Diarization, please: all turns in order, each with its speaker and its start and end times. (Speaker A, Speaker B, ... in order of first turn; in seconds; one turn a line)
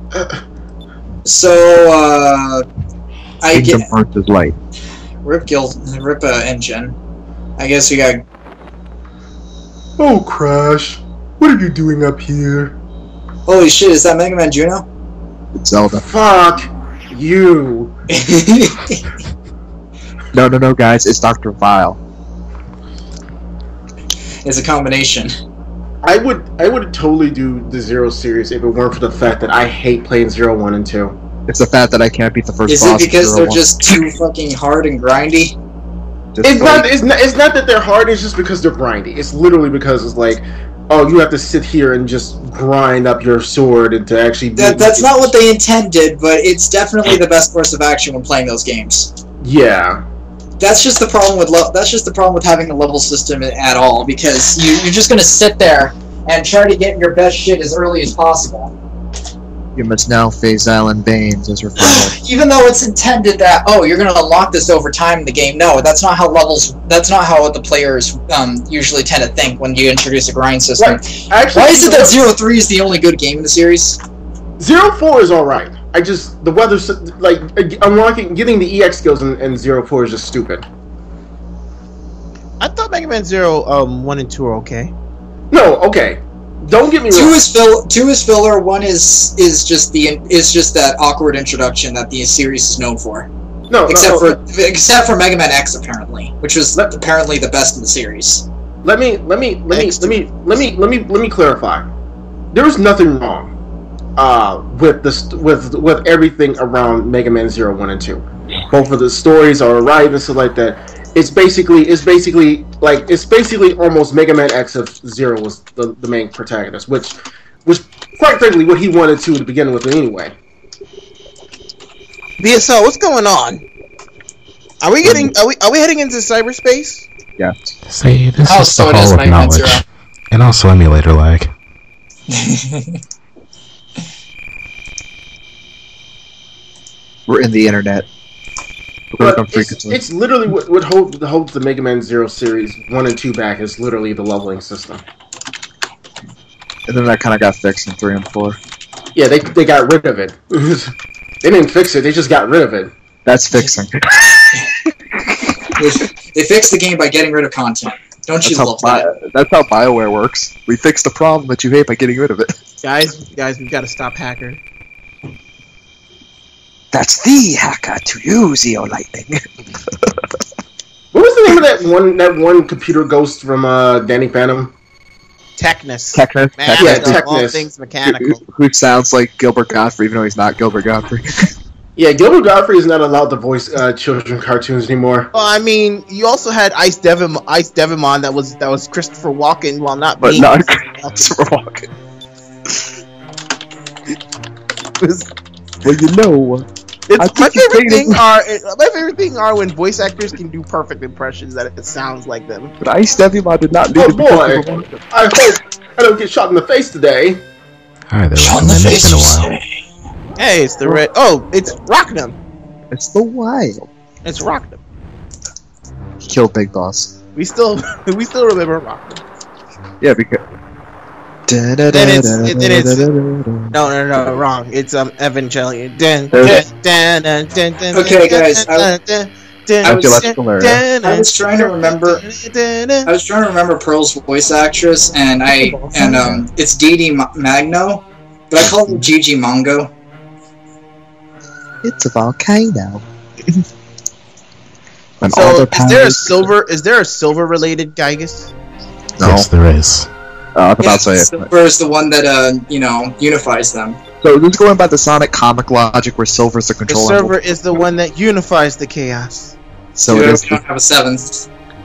Speaker A: 0.1-0.4
Speaker B: 1.2-2.6
Speaker B: 3.4-3.9
Speaker C: 3.5-4.5
Speaker B: 5.2-7.0
Speaker B: 7.6-8.2
Speaker A: 10.0-12.7
Speaker B: 13.4-14.8
Speaker C: 15.6-16.0
Speaker A: 15.9-17.9
Speaker B: 18.1-19.0
Speaker C: 20.3-22.0
Speaker B: 24.4-25.3
Speaker A: 26.0-31.2
Speaker C: 31.5-33.7
Speaker B: 32.7-35.6
Speaker C: 36.3-36.9
Speaker A: 36.4-45.3
Speaker B: 44.5-49.1
Speaker A: 49.4-50.0
Speaker B: 50.6-58.7
Speaker C: 59.8-62.1
Speaker B: 61.8-74.0
Speaker A: 70.8-72.2
Speaker A: 74.6-80.6
Speaker D: 82.6-84.9
Speaker A: 85.5-87.4
Speaker B: 87.1-93.3
Speaker A: 93.7-94.4
Speaker B: 93.9-98.5
Speaker A: 96.8-97.0
Speaker A: 98.8-101.9
Speaker D: 99.7-100.2
Speaker A: 102.5-103.5
Speaker A: 104.2-120.3
Speaker D: 122.4-123.6
Speaker D: 124.8-127.1
Speaker C: 125.0-125.3
Speaker C: 127.4-127.7
Speaker E: 127.9-131.5
Speaker B: 128.4-129.8
Speaker B: 132.3-133.0
Speaker C: 137.3-138.1
Speaker C: 139.1-140.0
Speaker A: 139.2-145.0
Speaker C: 146.9-148.6
Speaker A: 149.1-152.9
Speaker C: 153.2-154.6
Speaker B: 155.7-159.1
Speaker C: 158.4-162.5
Speaker D: 162.8-164.6
Speaker C: 166.9-169.5
Speaker A: 171.1-174.7
Speaker D: 175.6-178.4
Speaker C: 176.1-177.2
Speaker A: 176.8-177.6
Speaker C: 178.0-181.5
Speaker A: 181.9-185.3
Speaker D: 185.3-191.1
Speaker C: 190.2-191.9
Speaker D: 195.0-195.3
Speaker C: 195.8-198.2
Speaker D: 197.1-202.7
Speaker C: 202.8-205.0
Speaker A: 203.9-207.4
Speaker E: 208.1-209.5
Speaker B: 208.3-209.6
Speaker D: 210.4-212.4
Speaker C: 212.9-213.9
Speaker D: 214.2-214.8
Speaker C: 216.2-217.2
Speaker D: 217.3-219.2
Speaker C: 220.0-220.4
Speaker C: 221.5-223.8
Speaker D: 221.9-223.1
Speaker D: 223.7-233.1
Speaker C: 226.3-226.7
Speaker B: 227.9-228.9
Speaker B: 229.8-230.2
Speaker C: 229.8-230.8
Speaker B: 231.0-232.2
Speaker B: 233.1-239.9
Speaker C: 235.5-236.4
Speaker C: 238.6-239.0
Speaker C: 241.8-243.6
Speaker C: 245.2-246.5
Speaker D: 245.3-248.5
Speaker C: 249.2-249.5
Speaker E: 249.2-250.1
Speaker C: 250.5-251.5
Speaker B: 250.8-254.0
Speaker C: 254.2-257.4
Speaker D: 256.9-259.6
Speaker C: 259.9-260.6
Speaker B: 260.1-261.5